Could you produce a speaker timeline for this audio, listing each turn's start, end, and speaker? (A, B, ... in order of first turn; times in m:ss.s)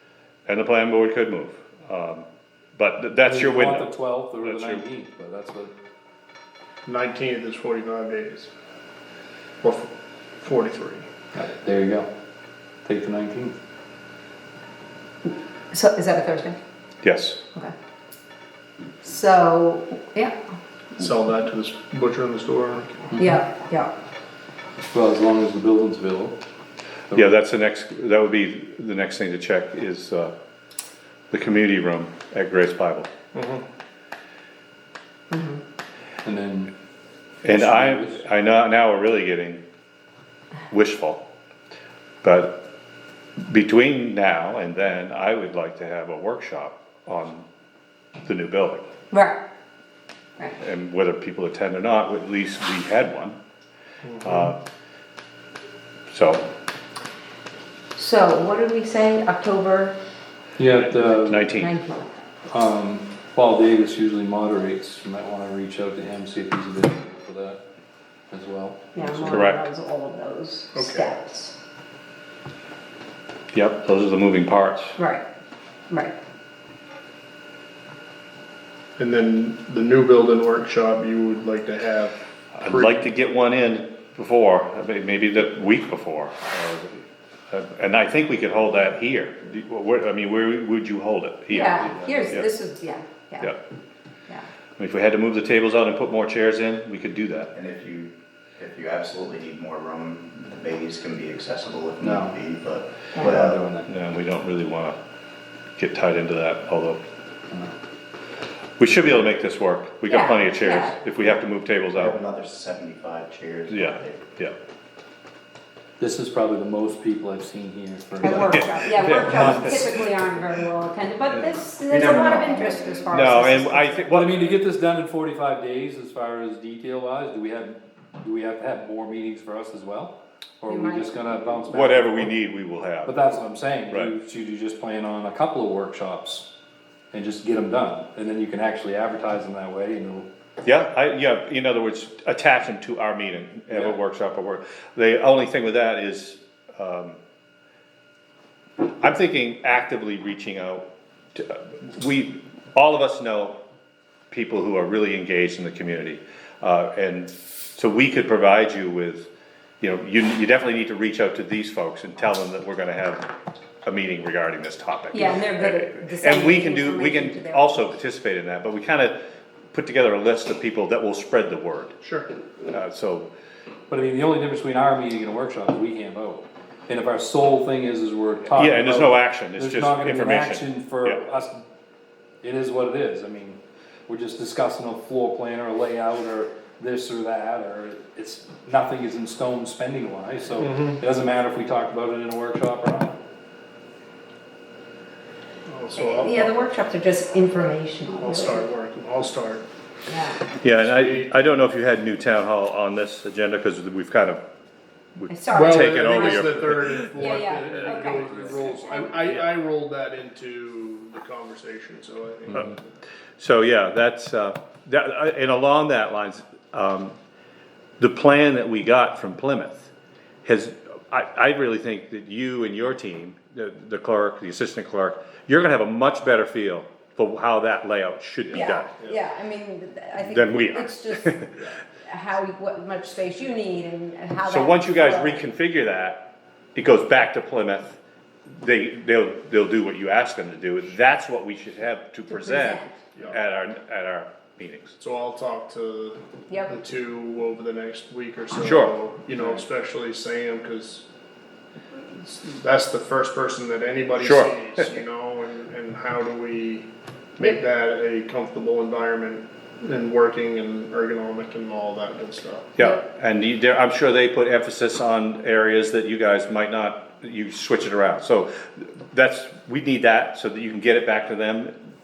0:00.5-0:02.3 A
0:02.8-0:04.9 A
0:03.2-0:05.7 B
0:06.9-0:08.5 C
0:09.6-0:09.9 C
0:10.4-0:11.1 C
0:11.3-0:12.1 B
0:12.8-0:13.6 B
0:15.7-0:16.6 D
0:17.0-0:17.4 A
0:19.0-0:20.4 D
0:21.0-0:23.0 C
0:23.1-0:23.9 D
0:24.9-0:26.4 B
0:27.1-0:27.4 B
0:27.1-0:30.3 A
0:31.3-0:33.1 A
0:33.3-0:33.6 C
0:35.3-0:35.6 D
0:36.2-0:36.7 B
0:37.4-0:39.6 A
0:37.4-0:38.2 B
0:40.7-0:41.2 A
0:42.2-0:42.6 A
0:43.5-0:47.5 A
0:48.2-0:48.9 A
0:49.1-0:49.4 D
0:50.6-0:53.4 A
0:54.0-0:54.5 C
0:54.2-0:54.6 A
0:56.1-0:56.5 A
0:58.0-1:00.0 D
1:00.6-1:01.5 B
1:01.2-1:01.8 A
1:01.5-1:02.1 D
1:02.5-1:07.6 B
1:08.3-1:09.5 B
1:09.0-1:11.6 D
1:09.2-1:09.7 A
1:10.7-1:11.2 C
1:13.5-1:15.0 A
1:15.0-1:15.2 D
1:19.0-1:23.0 C
1:22.6-1:32.5 A
1:31.5-1:33.5 D
1:31.8-1:32.4 B
1:34.8-1:37.5 A
1:37.5-1:43.7 E
1:42.0-1:42.4 B
1:43.2-1:43.9 B
1:43.8-1:45.0 A
1:45.8-1:47.0 A
1:48.8-1:52.2 A
1:50.1-1:51.0 D
1:52.0-1:54.2 E
1:53.7-1:54.6 A
1:56.0-1:59.9 B
1:58.2-2:04.1 D
1:58.5-1:59.8 A
2:01.9-2:03.1 E
2:03.1-2:04.6 A
2:04.1-2:12.3 B
2:10.7-2:11.5 D
2:11.7-2:13.3 A
2:13.0-2:16.5 B
2:17.1-2:20.3 B
2:20.6-2:27.2 A
2:29.0-2:33.6 A
2:34.3-2:39.3 A
2:39.8-2:43.3 A
2:43.8-2:49.2 A
2:45.1-2:47.9 D
2:49.7-2:52.0 A
2:52.0-2:52.3 C
2:52.7-2:53.3 A
2:53.9-3:01.6 B
2:58.5-3:01.2 A
3:02.4-3:13.2 B
3:10.6-3:11.0 C
3:15.7-3:16.6 C
3:16.0-3:18.6 D
3:18.2-3:19.7 C
3:20.1-3:20.5 D
3:20.6-3:24.4 A
3:20.8-3:21.4 C
3:25.2-3:27.1 A
3:25.3-3:29.2 D
3:25.5-3:32.8 C
3:27.4-3:29.1 B
3:33.4-3:37.2 A
3:38.0-3:39.9 A
3:40.4-3:48.9 A
3:48.5-3:51.4 D
3:50.2-3:51.6 A
3:52.0-3:55.4 D
3:54.4-3:58.0 A
3:58.6-4:05.0 A
4:02.3-4:03.0 D
4:05.0-4:11.0 C
4:08.6-4:09.0 A
4:12.2-4:22.7 C
4:14.2-4:14.9 A
4:22.8-4:31.8 A